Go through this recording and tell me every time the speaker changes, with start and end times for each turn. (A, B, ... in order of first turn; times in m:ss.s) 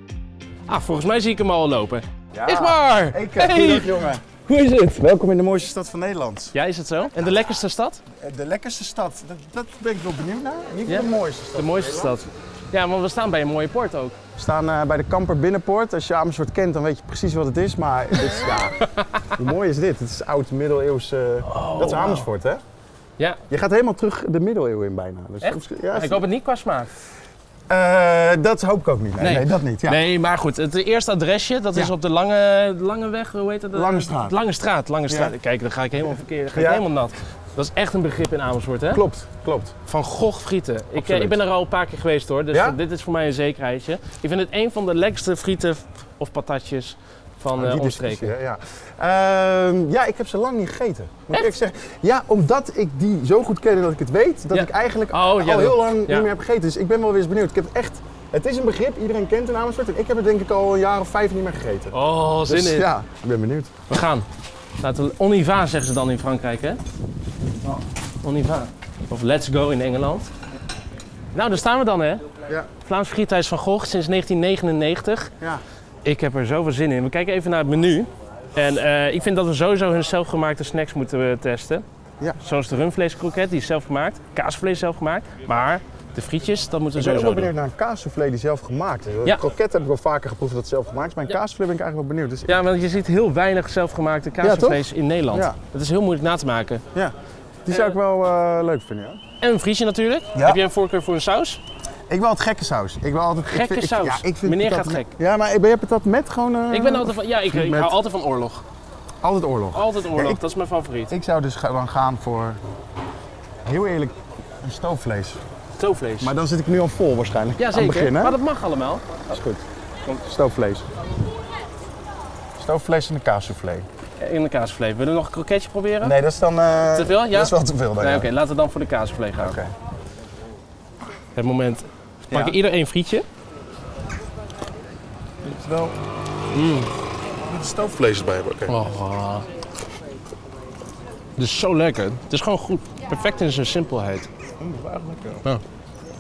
0:00.7-0:05.1 A
0:02.3-0:04.2 B
0:05.0-0:06.6 B
0:06.5-0:08.0 A
0:08.1-0:12.2 B
0:10.9-0:14.2 A
0:14.4-0:22.6 B
0:21.5-0:22.3 A
0:23.5-0:26.2 B
0:25.4-0:26.9 A
0:27.7-0:30.0 B
0:29.2-0:39.0 A
0:33.7-0:34.4 B
0:35.1-0:35.4 B
0:36.5-0:36.9 B
0:38.9-0:39.7 B
0:39.9-0:48.3 A
0:41.0-0:41.4 B
0:42.5-0:42.8 B
0:47.6-1:03.8 B
0:54.5-0:56.3 A
1:01.9-1:02.9 A
1:03.9-1:04.3 A
1:04.8-1:06.8 A
1:08.2-1:10.3 A
1:11.3-1:12.2 A
1:12.8-1:15.3 A
1:16.0-1:21.8 A
1:22.4-1:27.5 A
1:27.0-1:32.6 B
1:32.5-1:36.8 A
1:34.4-1:35.6 B
1:37.7-1:39.2 B
1:37.7-1:38.0 A
1:39.4-1:41.6 A
1:40.4-1:40.6 B
1:42.1-1:48.0 B
1:43.5-1:45.1 A
1:46.7-1:48.6 A
1:49.2-1:50.4 B
1:49.7-1:51.1 A
1:51.1-1:52.6 B
1:53.6-1:55.4 B
1:55.8-1:56.3 A
1:56.2-1:58.4 B
1:57.6-1:59.2 A
1:59.3-2:00.9 B
2:02.6-2:03.9 B
2:04.2-2:06.2 A
2:06.0-2:08.3 B
2:07.0-2:09.6 A
2:09.4-2:09.7 B
2:11.4-2:13.3 A
2:12.3-2:12.6 B
2:15.4-2:16.0 B
2:16.5-2:16.9 A
2:17.5-2:18.8 B
2:18.7-2:19.5 A
2:21.4-2:24.3 A
2:24.6-2:25.4 B